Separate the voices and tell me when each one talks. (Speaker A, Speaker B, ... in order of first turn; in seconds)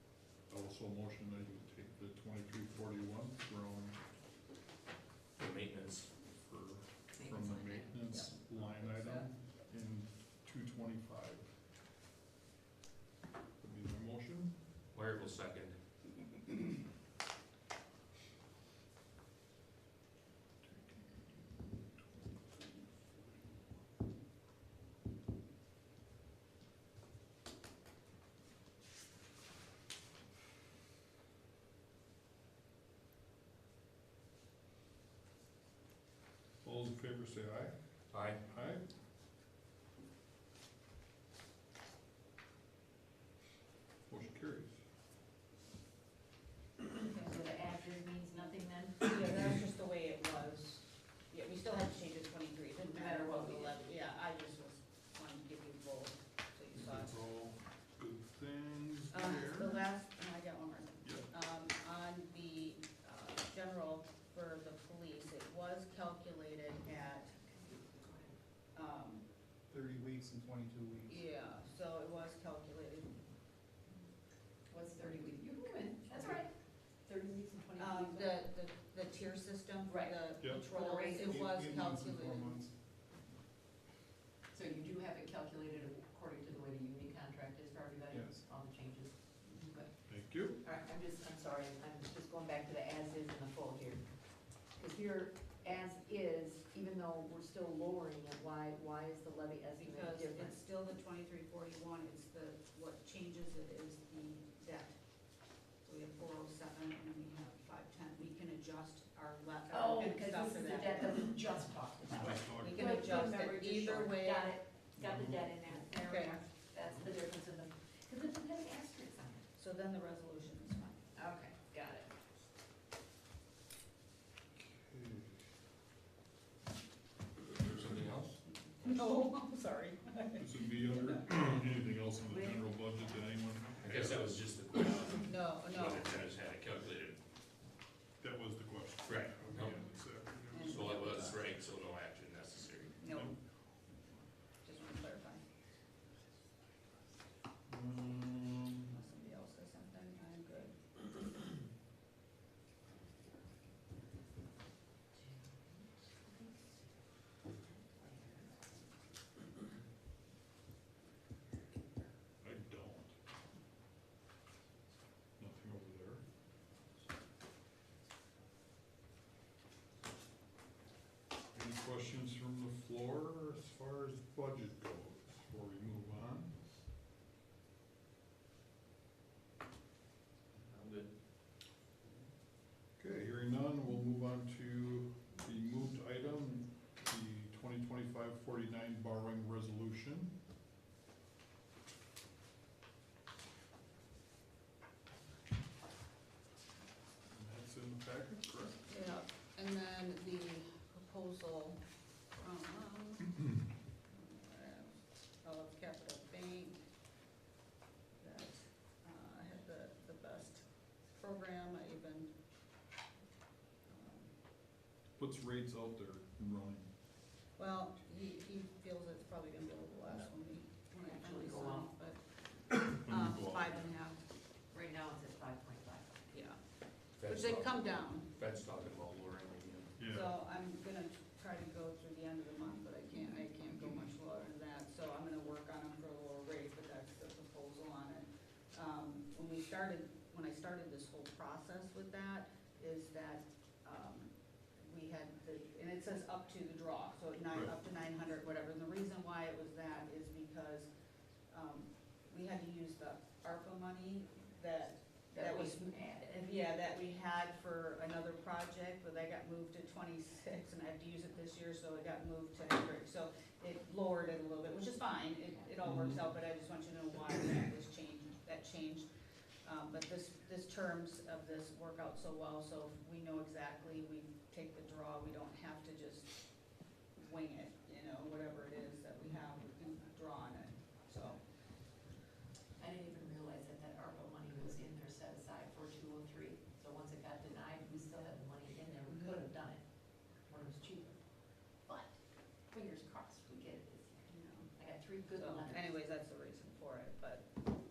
Speaker A: 0.5-4.0, 6.4-11.5, 13.6-14.5, 20.6-22.8, 36.6-37.7, 38.5-38.8, 44.1-44.8, 56.7-59.8, 90.1-90.6, 112.1-112.9, 115.0-115.5, 124.6-125.4, 130.4-134.4, 138.2-141.1, 143.1-143.3, 147.7-148.9, 162.4-163.2, 165.4-166.2, 171.5-176.5, 183.0-190.3, 197.3-198.8, 215.2-216.9, 222.9-223.9, 230.0-230.3, 265.8-266.2
Speaker B: 5.4-6.1, 14.9-15.8, 38.1-38.4, 127.5-128.4, 133.8-137.2, 139.1-139.8, 140.6-143.0, 180.6-181.1, 227.2-229.9
Speaker C: 7.2-8.0, 47.0-49.1, 52.9-53.8, 67.3-68.3, 74.7-76.5, 77.0-78.3, 79.8-81.8, 84.5-89.9, 90.6-94.0, 94.8-100.6, 109.7-119.4, 121.1-122.1, 132.3-132.6, 155.2-156.7, 157.6-158.9, 161.5-162.1, 220.9-221.9, 224.7-226.2, 255.3-256.5, 282.8-289.8, 290.4-291.2, 291.9-292.1, 292.7-295.9
Speaker D: 47.1-47.4, 49.0-57.1, 59.1-67.3, 68.7-69.2, 71.1-73.1, 77.8-82.6, 99.8-105.0, 105.8-111.2, 112.6-114.5, 116.0-116.4, 119.6-121.0, 128.8-131.2, 135.2-136.2, 140.5-141.4, 143.0-143.4, 144.6-145.4, 148.8-150.8, 198.8-201.8, 202.3-203.4, 204.1-206.8, 208.2-212.3, 213.8-214.3, 217.6-224.2, 226.3-226.6, 227.2-228.3, 230.1-250.9, 251.5-269.1, 269.6-276.4, 277.2-281.4, 294.3-294.7, 295.3-297.6
Speaker E: 69.7-71.2, 81.2-82.7, 88.1-88.4